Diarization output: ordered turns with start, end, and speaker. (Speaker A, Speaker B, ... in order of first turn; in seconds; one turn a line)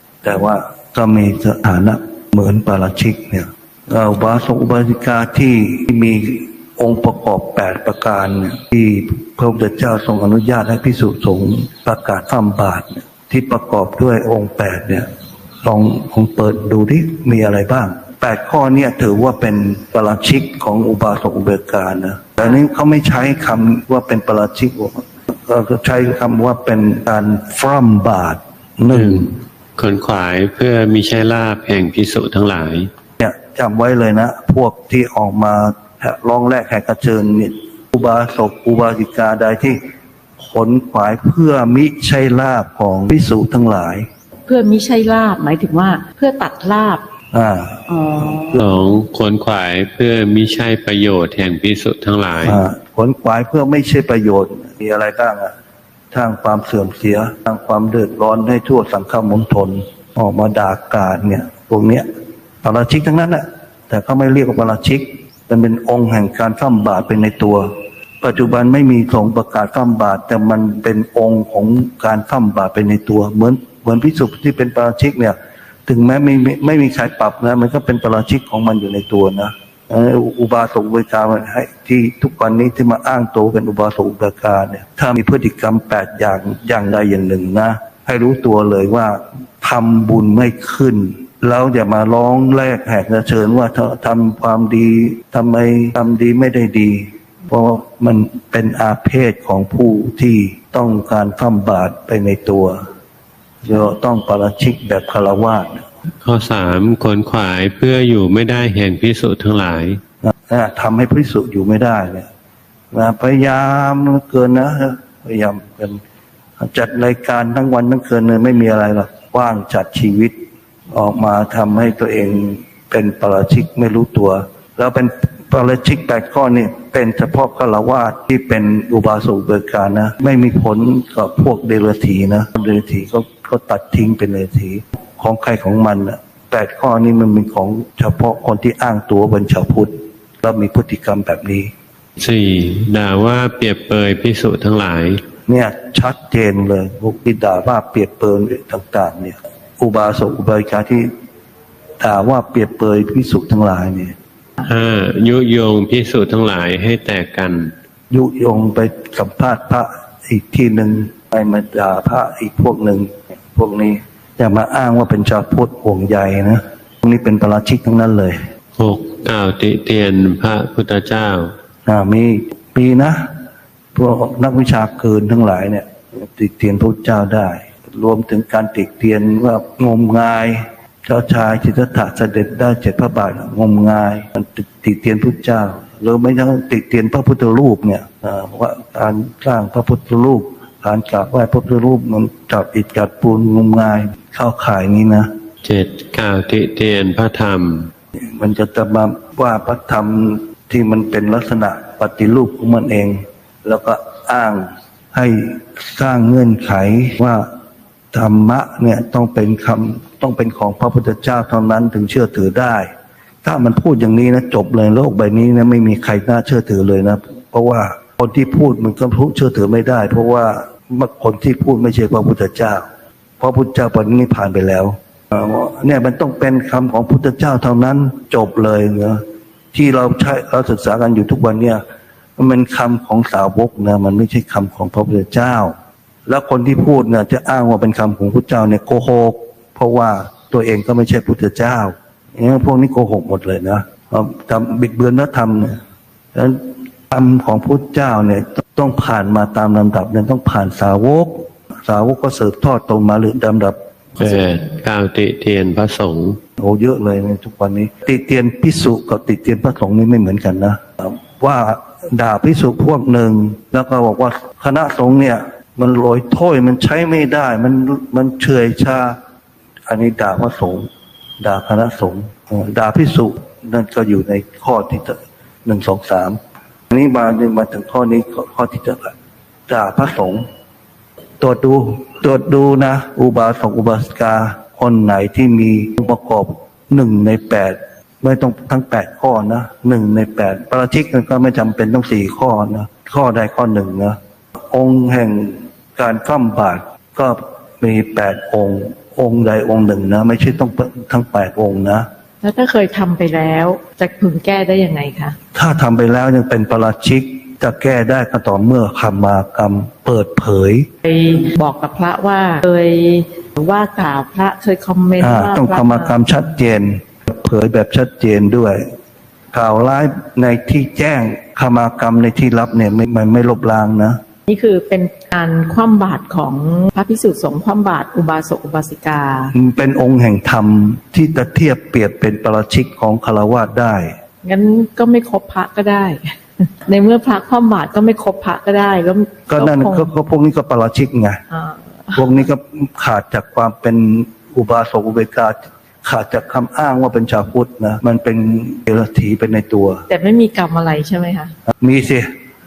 Speaker A: 0.2-15.1
Speaker A: 15.6-29.3
Speaker B: 28.9-32.9
Speaker A: 33.2-39.8
Speaker A: 40.4-44.1
Speaker C: 44.5-47.0
Speaker A: 47.3-47.8
Speaker C: 47.9-48.6
Speaker B: 48.6-52.6
Speaker A: 52.4-55.5
Speaker A: 56.1-62.1
Speaker A: 62.6-67.7
Speaker A: 68.2-75.4
Speaker A: 75.9-102.8
Speaker A: 103.6-105.9
Speaker B: 106.2-110.0
Speaker A: 110.2-112.3
Speaker A: 112.9-116.0
Speaker A: 116.6-120.4
Speaker A: 120.9-141.7
Speaker B: 142.2-145.2
Speaker A: 145.5-151.1
Speaker A: 152.0-154.2
Speaker B: 154.6-157.7
Speaker A: 158.1-168.5
Speaker B: 168.8-171.5
Speaker A: 171.9-173.3
Speaker A: 173.9-195.3
Speaker B: 195.6-197.9
Speaker A: 198.3-207.5
Speaker A: 208.1-212.9
Speaker A: 213.4-222.9
Speaker A: 223.4-229.2
Speaker A: 229.7-231.8
Speaker A: 232.4-235.8
Speaker A: 236.3-245.8
Speaker A: 246.3-253.8
Speaker B: 254.2-256.4
Speaker A: 256.6-269.2
Speaker A: 269.9-270.9
Speaker A: 271.4-276.4
Speaker A: 276.9-279.1
Speaker A: 279.7-280.5
Speaker A: 281.4-294.2
Speaker A: 294.7-302.1
Speaker C: 302.4-305.4
Speaker A: 305.6-310.9
Speaker C: 311.1-316.2
Speaker A: 315.2-318.9
Speaker A: 319.5-324.2
Speaker C: 324.5-329.5
Speaker A: 329.5-334.1
Speaker C: 334.4-340.1
Speaker A: 339.5-341.4
Speaker C: 341.5-342.4
Speaker A: 342.1-350.1
Speaker C: 350.1-351.5
Speaker A: 351.8-352.3